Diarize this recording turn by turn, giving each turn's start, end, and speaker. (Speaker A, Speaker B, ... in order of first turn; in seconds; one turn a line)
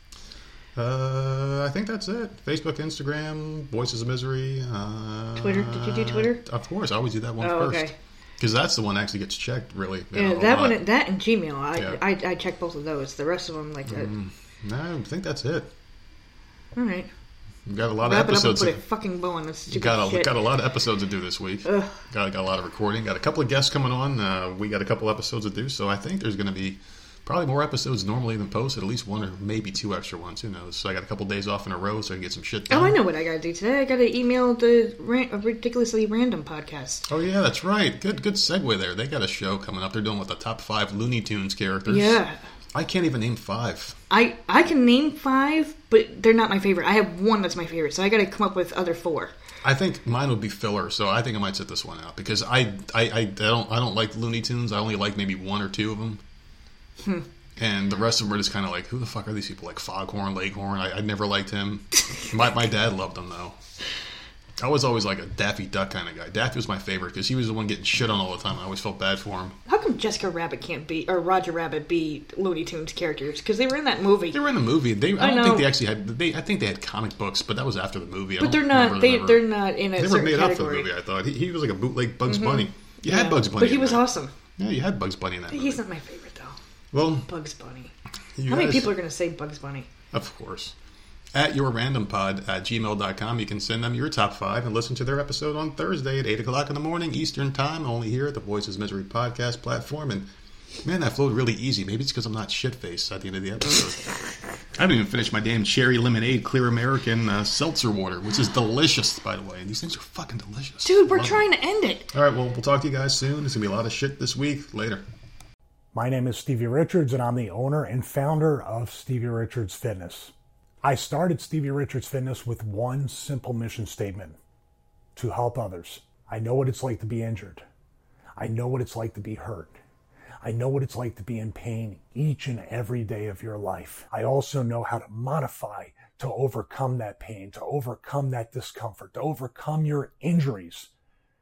Speaker A: 0.7-10.8
Speaker B: 5.4-6.4
Speaker B: 7.4-7.9
Speaker B: 10.1-14.1
Speaker A: 11.7-12.0
Speaker A: 13.9-15.7
Speaker B: 16.8-17.1
Speaker A: 17.7-18.8
Speaker B: 18.0-20.3
Speaker A: 19.7-33.0
Speaker B: 21.6-22.0
Speaker B: 32.7-37.0
Speaker A: 37.1-42.2
Speaker B: 41.9-42.4
Speaker A: 42.7-44.0
Speaker B: 44.1-49.3
Speaker A: 49.6-56.2
Speaker A: 57.6-63.6
Speaker A: 64.6-69.6
Speaker B: 69.7-74.4
Speaker A: 74.3-84.0
Speaker B: 75.2-75.7
Speaker B: 78.4-80.9
Speaker B: 82.2-84.3
Speaker A: 84.6-85.8
Speaker B: 85.5-86.6
Speaker A: 86.9-87.3
Speaker B: 87.3-87.9
Speaker A: 88.4-88.9
Speaker B: 88.5-89.9
Speaker A: 90.1-90.7
Speaker A: 91.3-100.3
Speaker A: 100.8-104.1
Speaker A: 104.7-111.4
Speaker B: 110.8-112.1
Speaker A: 112.1-115.0
Speaker C: 115.9-124.4
Speaker C: 125.2-127.6
Speaker C: 128.4-129.8
Speaker C: 130.4-140.9